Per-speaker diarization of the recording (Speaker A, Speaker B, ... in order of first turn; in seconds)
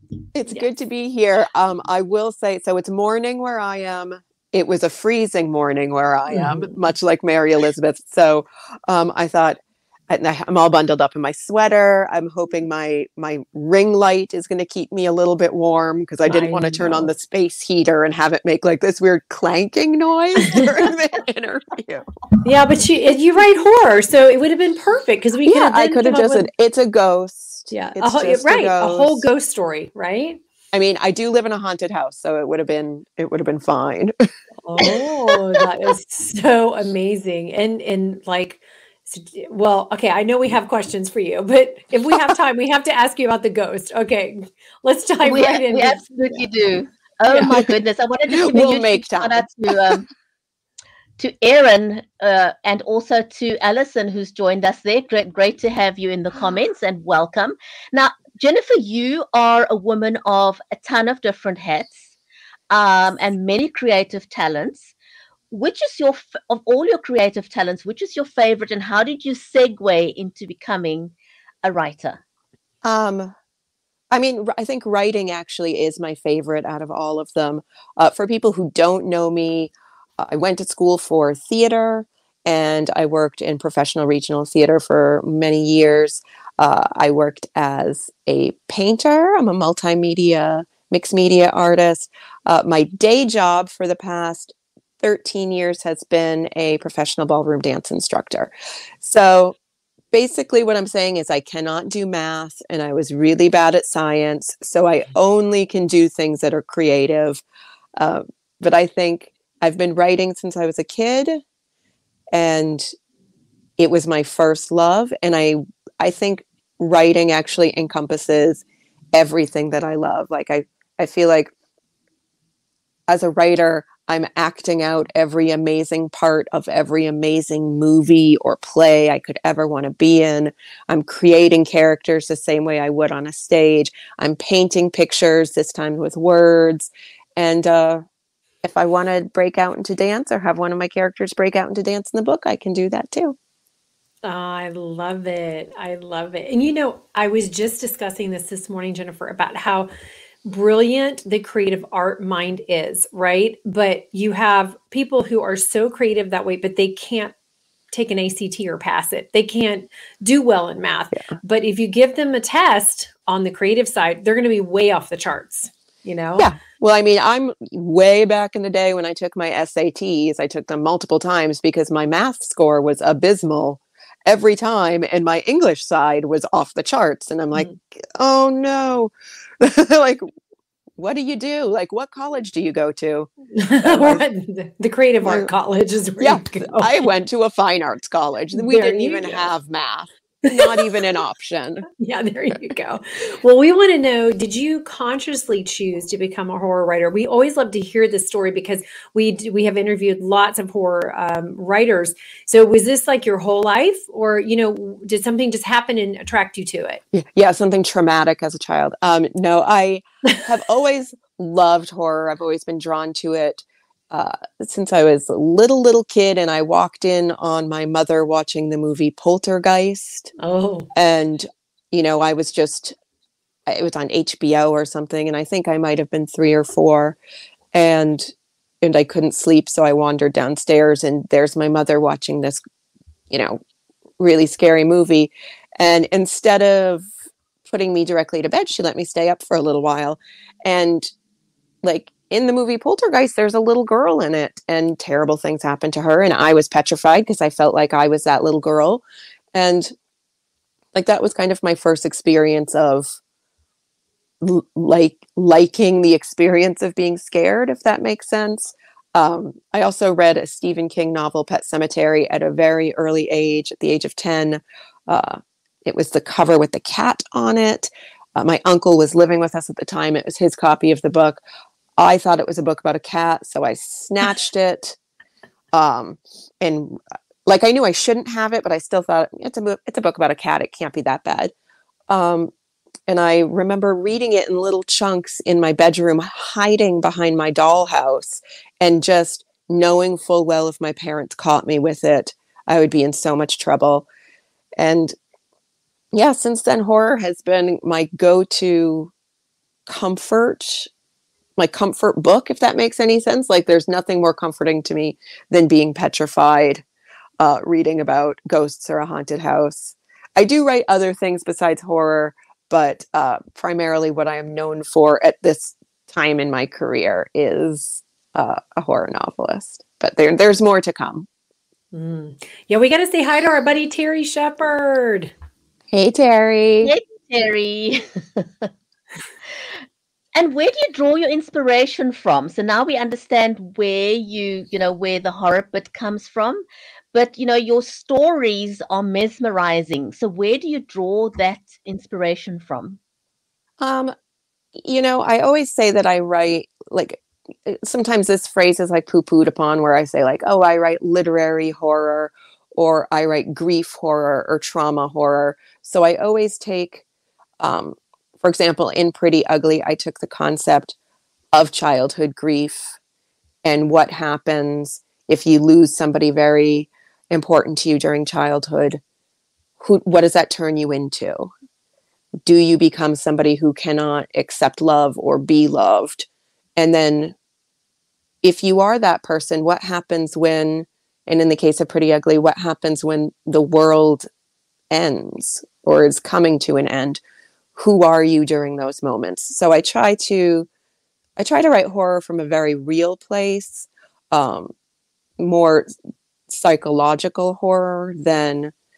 Speaker A: 0.3-22.0, 25.4-29.3, 30.7-34.1, 34.8-35.6, 48.3-50.0, 72.8-73.3, 74.1-99.5, 100.1-107.4, 108.0-111.4, 112.3-112.9, 113.8-121.5, 123.1-138.1, 138.6-143.4, 166.4-180.2, 181.0-184.2, 185.2-185.5, 186.2-191.9, 207.1-220.3, 220.9-222.9, 223.7-227.2, 227.7-232.6, 233.3-233.6, 234.2-237.1, 237.6-241.1, 241.8-249.0, 249.5-249.9, 250.9-253.2, 254.4-271.4, 272.0-275.0, 275.7-281.5, 282.1-282.5, 283.1-294.1, 294.8-295.1, 296.1-299.1, 299.9-300.9, 301.6-306.8, 307.4-321.3, 325.9-326.9, 343.8-344.1, 344.8-357.0, 357.6-361.0, 361.5-362.9, 363.6-369.0, 369.8-371.5, 372.4-377.4, 378.4-384.2, 384.9-387.2, 387.8-390.7, 391.4-394.7, 395.4-395.9, 396.5-398.7
Speaker B: 6.3-6.7, 16.3-17.1, 22.4-26.5, 27.7-30.4, 34.6-46.5, 144.2-149.9, 150.4-157.3, 157.9-166.5, 183.5-187.1, 188.5-189.5, 190.4-191.1, 192.0-207.0, 220.4-220.9, 321.9-325.3
Speaker C: 45.2-50.0, 51.2-62.1, 62.7-64.9, 65.5-72.2, 326.8-328.7, 330.4-343.0